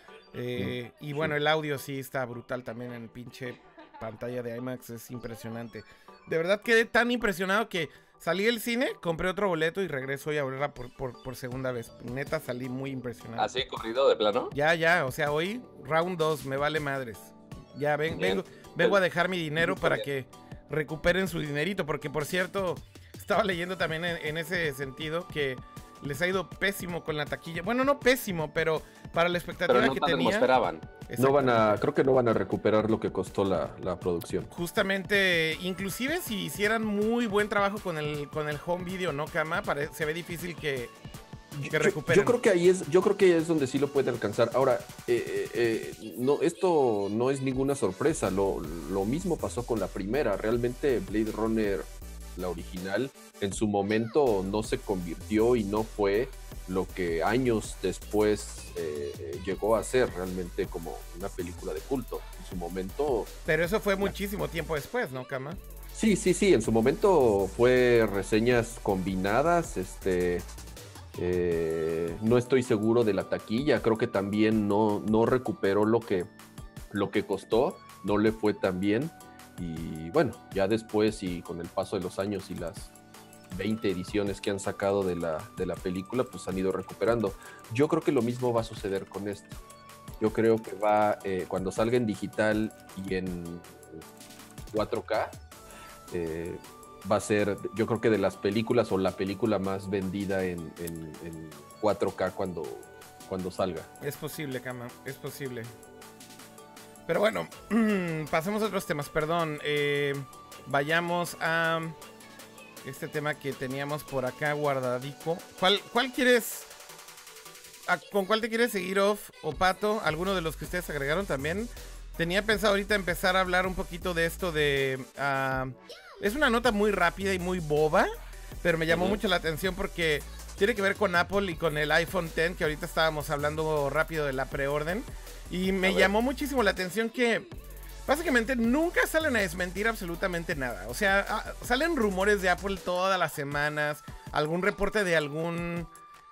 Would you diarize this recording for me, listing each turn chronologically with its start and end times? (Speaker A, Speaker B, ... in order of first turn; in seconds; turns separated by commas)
Speaker A: 0.3-13.5, Speaker B: 0.6-1.3, Speaker C: 13.4-14.5, Speaker A: 14.5-30.5, Speaker C: 18.1-19.0, Speaker C: 19.6-20.1, Speaker C: 29.7-30.9, Speaker A: 31.1-31.6, Speaker B: 31.2-34.5, Speaker A: 34.5-40.9, Speaker B: 41.5-63.3, Speaker A: 41.7-42.4, Speaker A: 63.5-65.6, Speaker B: 65.9-70.5, Speaker B: 71.2-76.3, Speaker B: 76.9-82.9, Speaker B: 83.5-89.6, Speaker B: 90.2-94.0, Speaker B: 94.7-95.4, Speaker B: 96.1-103.9, Speaker A: 104.0-105.7, Speaker A: 107.1-112.0, Speaker A: 112.8-116.7, Speaker A: 117.9-128.1, Speaker A: 128.6-137.4, Speaker C: 128.9-129.2, Speaker C: 135.8-136.1, Speaker A: 138.1-145.9